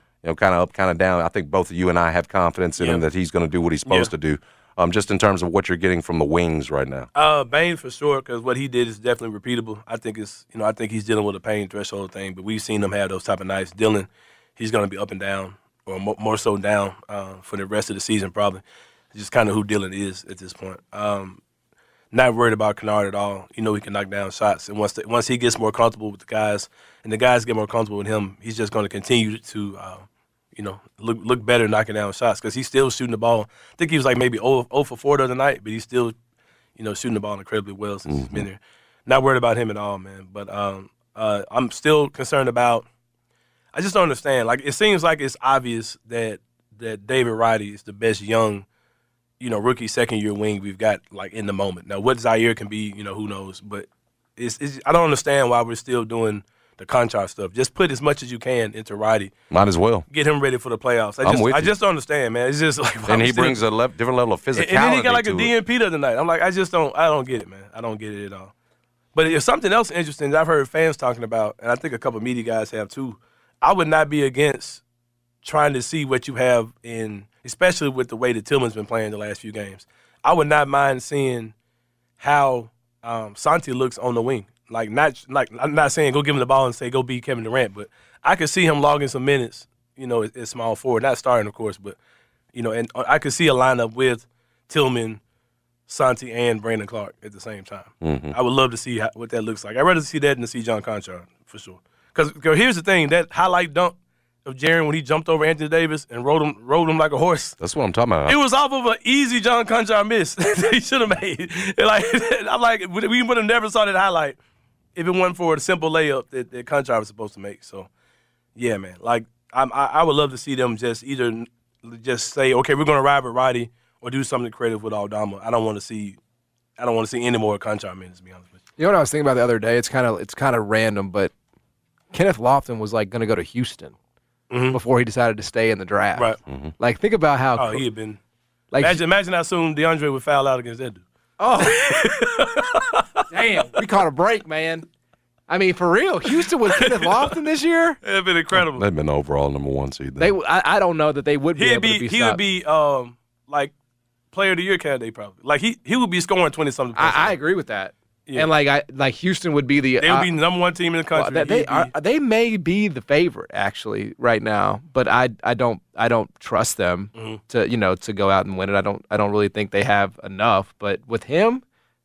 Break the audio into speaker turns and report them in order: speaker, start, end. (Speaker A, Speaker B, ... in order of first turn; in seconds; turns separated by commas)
Speaker A: 0.2-7.1, Speaker B: 2.8-3.0, Speaker B: 3.9-4.1, Speaker B: 7.2-18.6, Speaker B: 19.1-21.4, Speaker B: 22.1-36.1, Speaker B: 36.8-42.9, Speaker A: 38.1-38.5, Speaker B: 43.7-48.7, Speaker B: 49.4-59.3, Speaker A: 59.5-60.1, Speaker B: 60.1-63.6, Speaker A: 61.2-61.7, Speaker A: 63.1-65.5, Speaker B: 64.5-68.5, Speaker B: 69.2-74.8, Speaker B: 75.4-81.5, Speaker B: 82.2-92.0, Speaker B: 92.5-95.2, Speaker B: 95.9-107.6, Speaker A: 98.0-98.4, Speaker A: 107.6-108.4, Speaker B: 108.2-114.4, Speaker B: 115.0-117.9, Speaker B: 118.6-126.2, Speaker B: 126.8-128.6, Speaker C: 128.8-131.3, Speaker C: 132.1-133.9, Speaker B: 134.5-134.8, Speaker C: 134.7-137.8, Speaker A: 136.5-136.7, Speaker B: 137.6-138.2, Speaker C: 138.7-139.0, Speaker B: 138.8-141.0, Speaker C: 141.4-141.8, Speaker B: 141.6-143.2, Speaker C: 143.3-144.9, Speaker C: 145.5-148.0, Speaker B: 148.0-148.9, Speaker A: 148.5-150.3, Speaker C: 150.2-152.4, Speaker B: 151.6-153.7, Speaker B: 154.3-157.4, Speaker C: 156.9-160.3, Speaker B: 160.0-161.9, Speaker C: 161.1-171.6, Speaker B: 167.2-167.4